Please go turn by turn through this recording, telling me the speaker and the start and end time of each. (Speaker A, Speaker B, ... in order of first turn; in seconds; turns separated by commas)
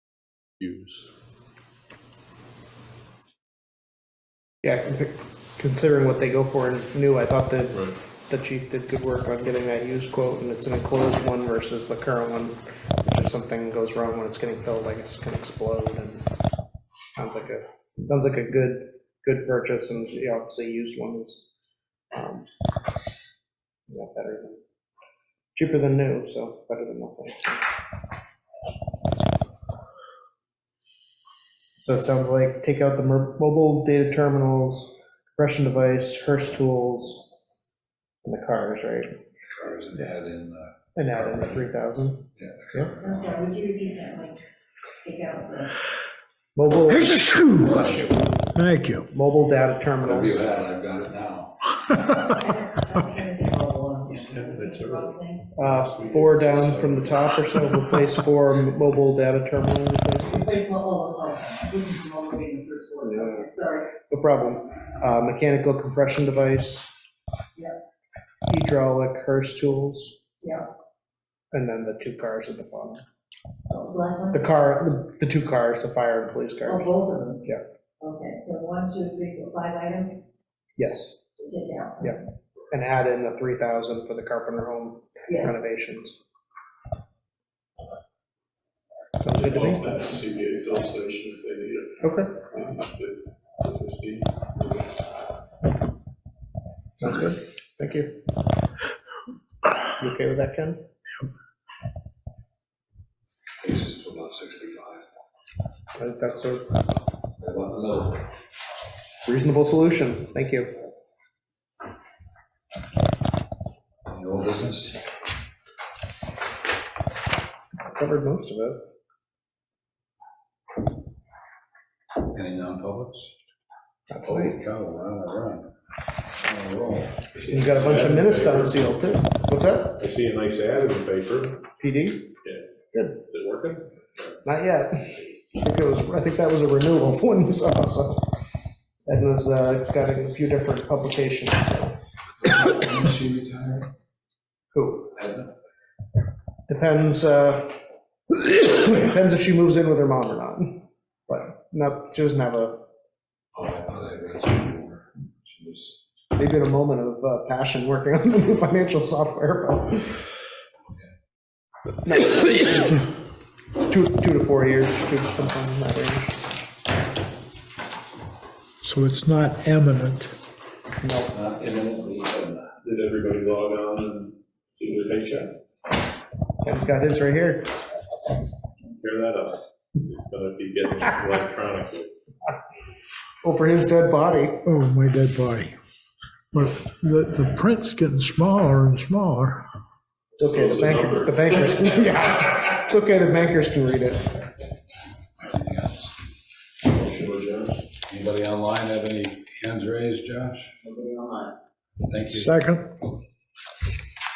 Speaker A: 0.6-1.1, Speaker B: 4.6-16.2, Speaker B: 17.1-21.4, Speaker B: 22.1-22.4, Speaker B: 23.9-24.6, Speaker B: 25.5-27.6, Speaker B: 31.8-37.3, Speaker B: 38.2-39.2, Speaker C: 39.5-41.7, Speaker B: 40.9-42.9, Speaker C: 42.4-43.4, Speaker D: 43.0-44.4, Speaker D: 45.0-45.8, Speaker B: 46.5-48.4, Speaker E: 46.9-47.8, Speaker C: 47.6-48.3, Speaker E: 48.5-49.1, Speaker B: 49.1-50.5, Speaker C: 50.0-52.0, Speaker D: 52.2-55.5, Speaker A: 54.1-57.7, Speaker B: 55.5-60.6, Speaker D: 60.2-63.9, Speaker B: 63.0-66.9, Speaker B: 68.5-70.2, Speaker B: 71.5-73.0, Speaker D: 73.7-74.4, Speaker B: 74.3-77.6, Speaker D: 76.7-77.4, Speaker D: 78.0-80.2, Speaker B: 80.8-81.1, Speaker D: 81.4-82.2, Speaker B: 82.0-86.2, Speaker D: 85.3-85.6, Speaker A: 89.2-94.8, Speaker B: 89.2-90.0, Speaker B: 92.0-92.3, Speaker B: 97.0-98.2, Speaker B: 100.0-100.8, Speaker C: 103.6-105.0, Speaker B: 106.0-106.7, Speaker C: 107.4-108.2, Speaker B: 109.2-110.7, Speaker C: 114.1-115.0, Speaker B: 117.9-118.8, Speaker C: 122.2-123.3, Speaker B: 124.1-124.5, Speaker C: 124.2-125.7, Speaker C: 126.4-127.2, Speaker A: 127.3-129.0, Speaker B: 127.5-130.0, Speaker A: 130.0-131.6, Speaker B: 131.8-132.3, Speaker A: 132.4-134.3, Speaker B: 134.4-138.3, Speaker B: 139.1-142.0, Speaker C: 142.4-143.9, Speaker B: 144.7-145.1, Speaker C: 145.1-145.5, Speaker B: 146.7-147.8, Speaker B: 148.3-152.8, Speaker C: 153.5-156.0, Speaker B: 156.3-160.3, Speaker B: 162.0-163.1, Speaker B: 163.8-166.4, Speaker E: 168.8-170.3, Speaker B: 171.0-171.3, Speaker C: 171.3-172.7, Speaker A: 172.8-175.5, Speaker B: 176.6-177.7, Speaker A: 178.8-182.1, Speaker B: 183.4-184.6, Speaker E: 184.6-185.8, Speaker E: 186.5-189.6, Speaker B: 190.4-194.4, Speaker A: 190.4-192.2, Speaker C: 195.4-196.1, Speaker A: 196.8-197.8, Speaker C: 198.1-200.7, Speaker C: 202.1-202.5, Speaker E: 202.3-202.9